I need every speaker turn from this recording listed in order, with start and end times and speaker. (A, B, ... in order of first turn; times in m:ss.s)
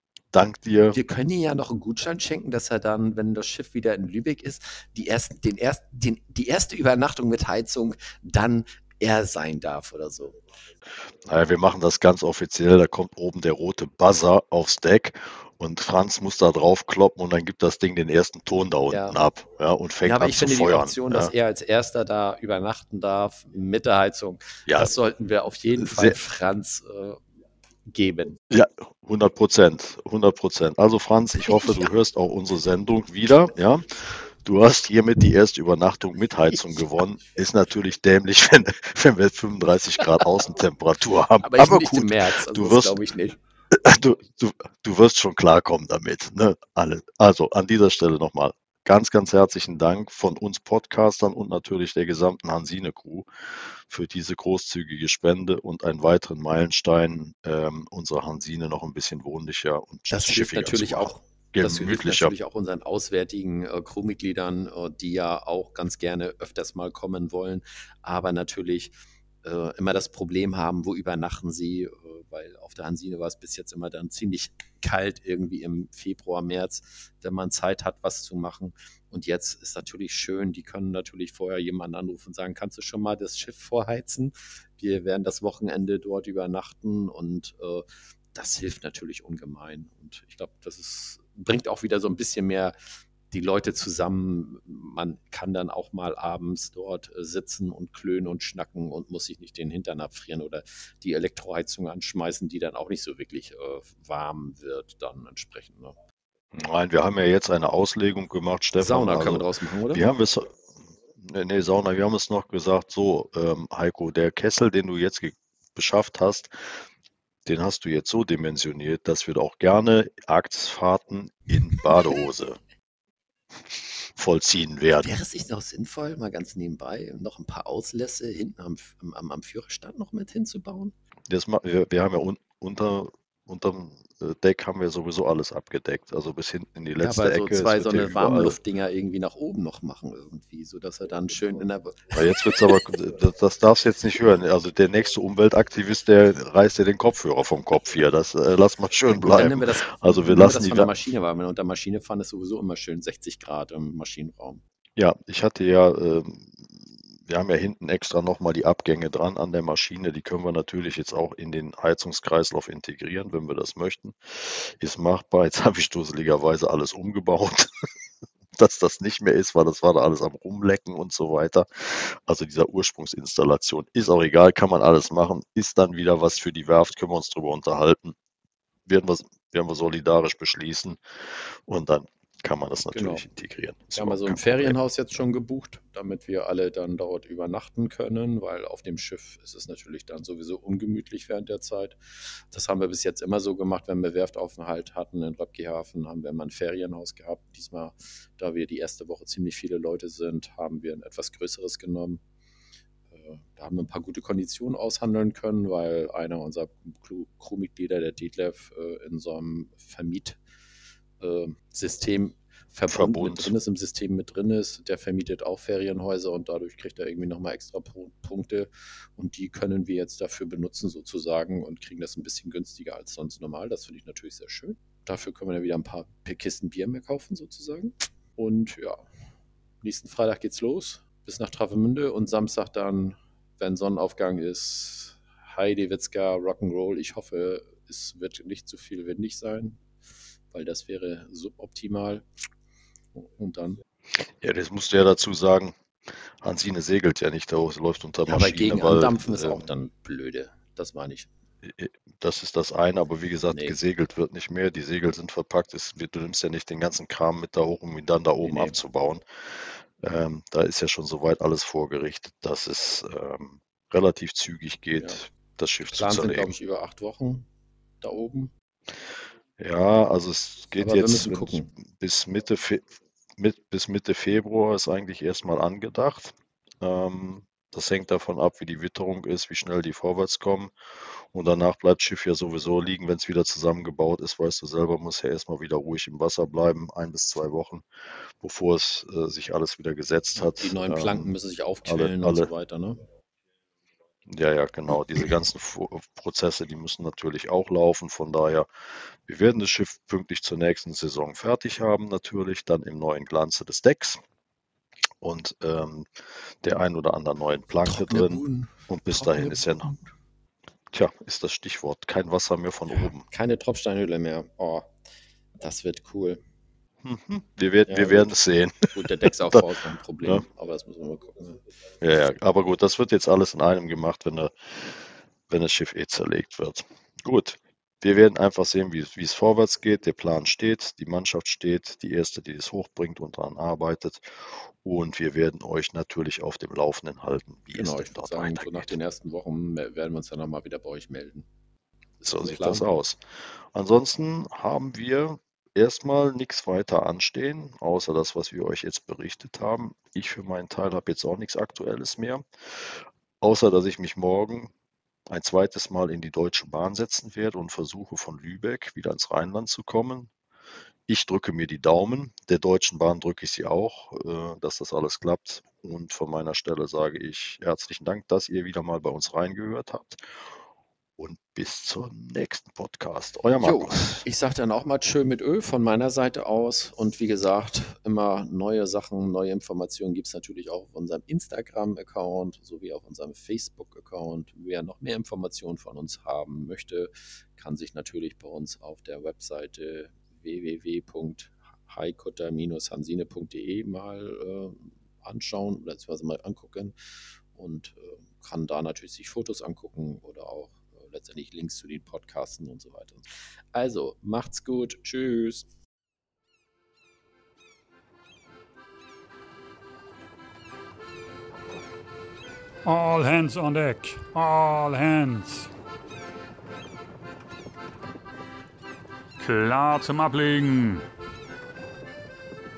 0:00.3-0:01.0 A
0:00.9-0:10.4 B
0:11.2-0:21.3 A
0:18.9-0:19.2 B
0:20.0-0:27.2 B
0:25.8-0:26.2 A
0:27.8-0:28.4 B
0:28.5-0:43.0 A
0:31.4-0:31.9 B
0:36.5-0:36.8 B
0:41.4-0:43.4 B
0:43.7-1:02.3 A
1:00.1-1:08.9 B
1:09.4-1:32.7 B
1:33.3-1:46.0 B
1:46.5-1:50.5 A
1:48.8-1:50.0 B
1:51.2-1:56.5 A
1:57.4-2:02.6 A
2:03.7-2:05.1 A
2:04.9-2:10.9 B
2:11.3-2:18.6 A
2:17.0-2:22.8 B
2:22.1-2:30.9 A
2:29.1-2:34.6 B
2:35.0-2:47.7 A
2:48.6-2:58.1 A
2:58.8-3:04.8 A
3:02.9-3:03.2 B
3:03.9-3:22.2 B
3:23.1-3:30.4 B
3:31.2-3:49.0 B
3:32.9-3:33.5 A
3:49.8-3:59.8 B
4:00.5-4:02.2 B
4:03.1-4:03.8 B
4:04.2-4:05.8 A
4:06.4-4:09.7 A
4:08.2-4:11.3 B
4:11.6-4:26.6 A
4:13.5-4:13.8 B
4:18.4-4:18.8 B
4:25.8-4:27.4 B
4:28.0-4:28.5 B
4:29.6-4:32.8 A
4:30.8-4:31.7 B
4:33.4-4:47.8 A
4:48.4-4:51.3 A
4:50.4-4:53.0 B
4:51.8-4:52.5 A
4:54.2-4:58.7 A
4:59.2-5:04.2 A
5:05.2-5:09.9 A
5:07.8-5:10.1 B
5:10.9-5:13.2 A
5:12.9-5:14.9 B
5:15.6-5:16.4 B
5:17.0-5:19.6 A
5:17.9-5:21.6 B
5:22.0-5:39.0 A
5:37.7-5:41.4 B
5:42.2-5:42.9 B
5:42.2-5:43.2 A
5:43.7-5:54.7 A
5:55.3-6:00.3 A
6:01.1-6:10.5 A
6:11.2-6:14.2 A
6:13.6-6:36.9 B
6:37.5-6:45.6 B
6:52.8-6:55.7 C
6:59.4-7:01.0 C